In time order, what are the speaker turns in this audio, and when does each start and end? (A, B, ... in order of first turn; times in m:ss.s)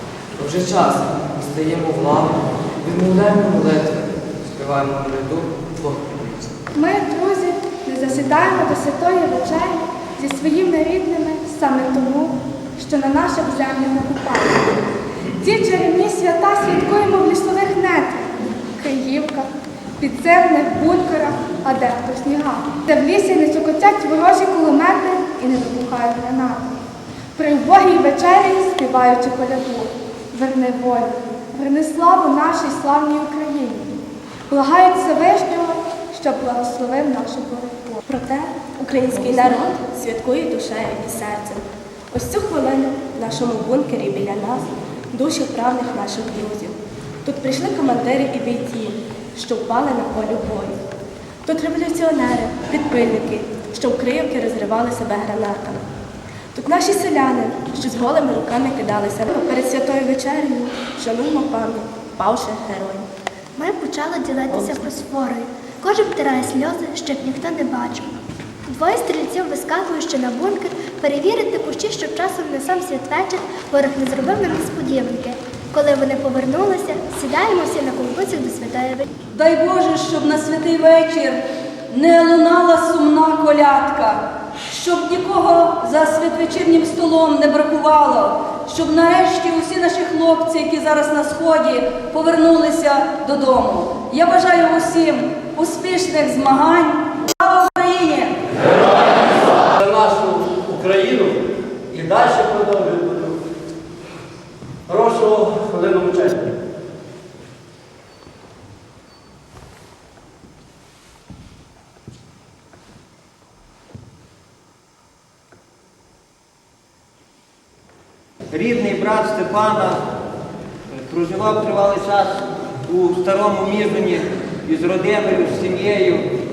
0:00.4-0:06.6 A
0:06.8-0:14.6 B
0:15.4-0:26.7 B
0:27.4-0:33.9 B
0:34.5-0:38.0 B
0:38.1-0:50.8 C
0:51.4-0:55.9 C
0:56.5-1:03.1 C
1:03.6-1:19.1 D
1:19.3-1:38.4 E
1:39.6-1:43.4 F
1:44.9-1:46.5 F
1:58.5-2:00.0 G
2:01.0-2:06.3 G